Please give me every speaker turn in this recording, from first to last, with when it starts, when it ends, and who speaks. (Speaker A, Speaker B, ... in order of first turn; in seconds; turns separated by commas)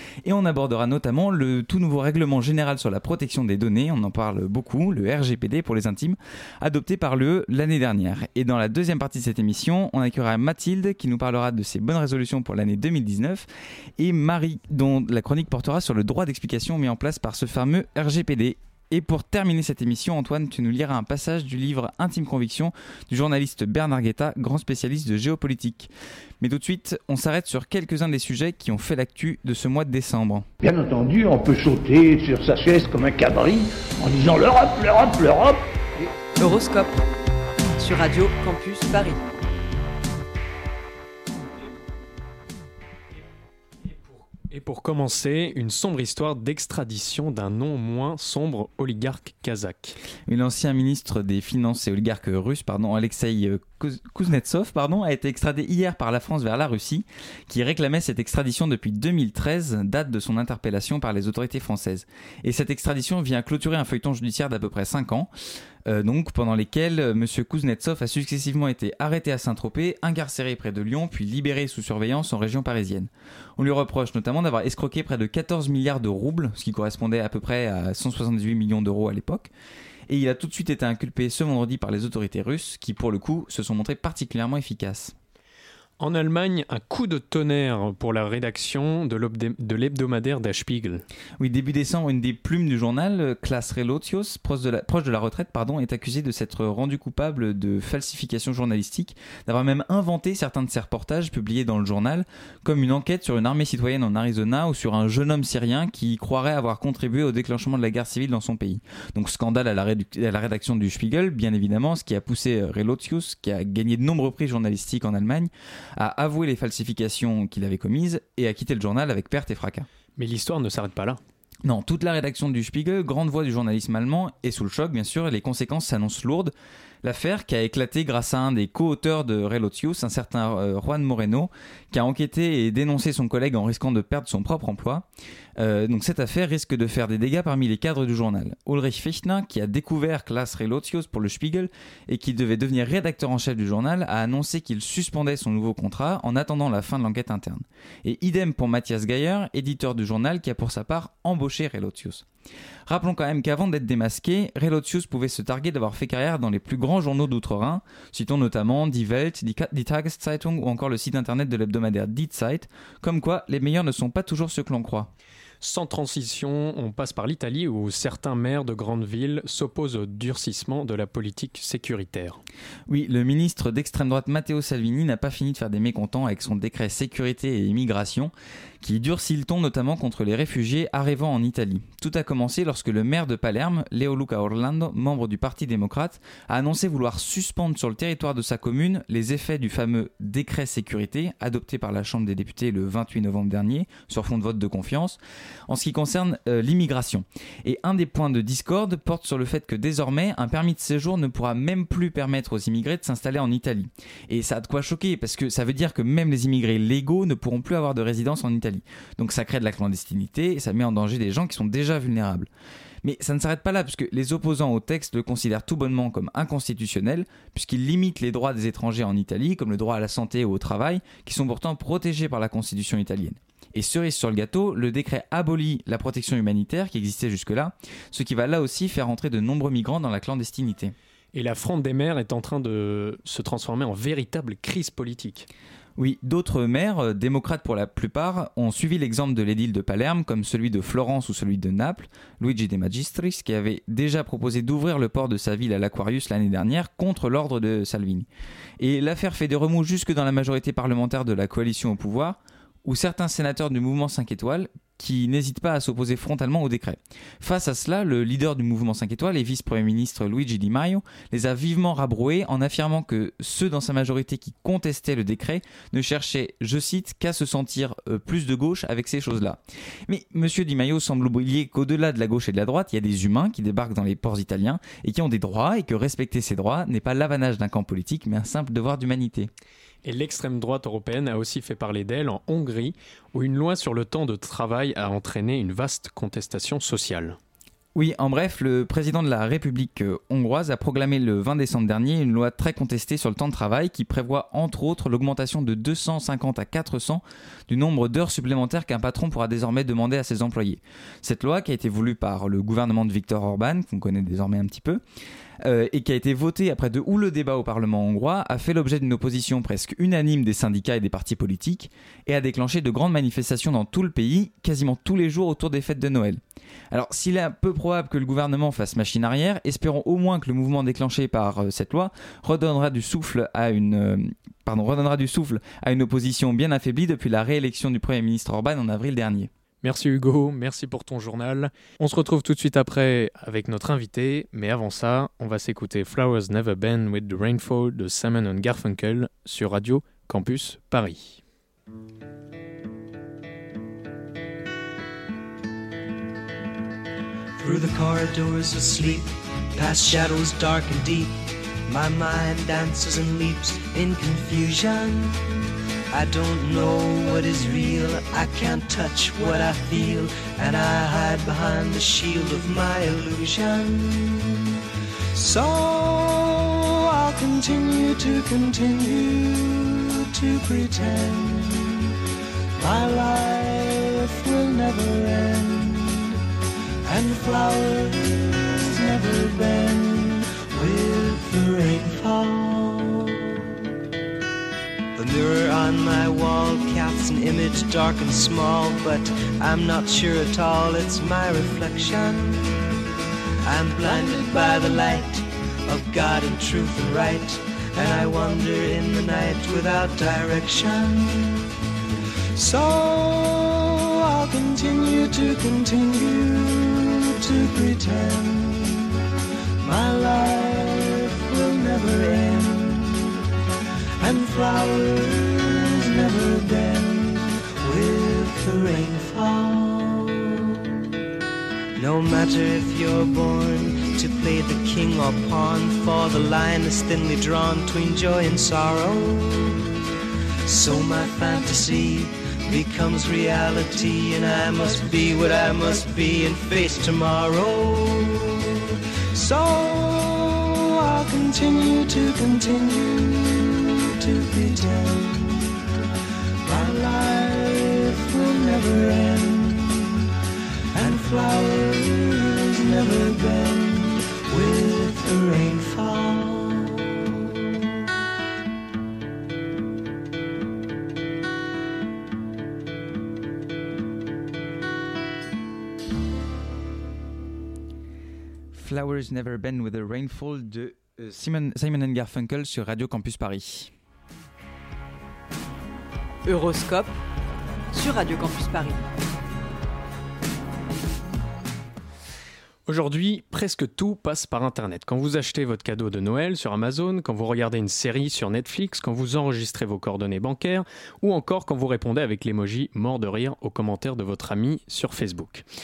Speaker A: 0.2-30.5, Speaker B: 30.6-36.1, Speaker C: 36.4-37.0, Speaker C: 37.8-39.2, Speaker D: 43.9-50.0, Speaker A: 50.3-65.3, Speaker A: 65.8-79.5, Speaker A: 80.1-85.2, Speaker D: 86.0-91.0, Speaker A: 91.4-119.9, Speaker D: 120.2-121.2, Speaker A: 121.7-152.3, Speaker A: 152.9-165.1, Speaker D: 165.6-172.4, Speaker A: 172.9-212.5, Speaker A: 213.0-230.9, Speaker D: 231.3-235.5, Speaker A: 236.0-248.3, Speaker A: 248.8-279.5, Speaker D: 280.0-287.4, Speaker A: 287.9-305.0, Speaker A: 305.6-329.5, Speaker D: 329.8-341.4, Speaker E: 347.6-355.4, Speaker E: 356.1-364.8, Speaker E: 365.3-372.2, Speaker E: 372.8-376.4, Speaker E: 377.1-383.8, Speaker E: 385.1-392.8, Speaker E: 393.6-401.7, Speaker E: 402.6-409.2, Speaker E: 409.8-413.4, Speaker E: 414.2-420.8, Speaker E: 422.0-429.9, Speaker E: 430.7-445.8, Speaker E: 446.7-450.3, Speaker E: 450.9-457.4, Speaker A: 468.7-473.9, Speaker C: 476.5-477.1, Speaker C: 477.9-479.0, Speaker D: 482.9-495.7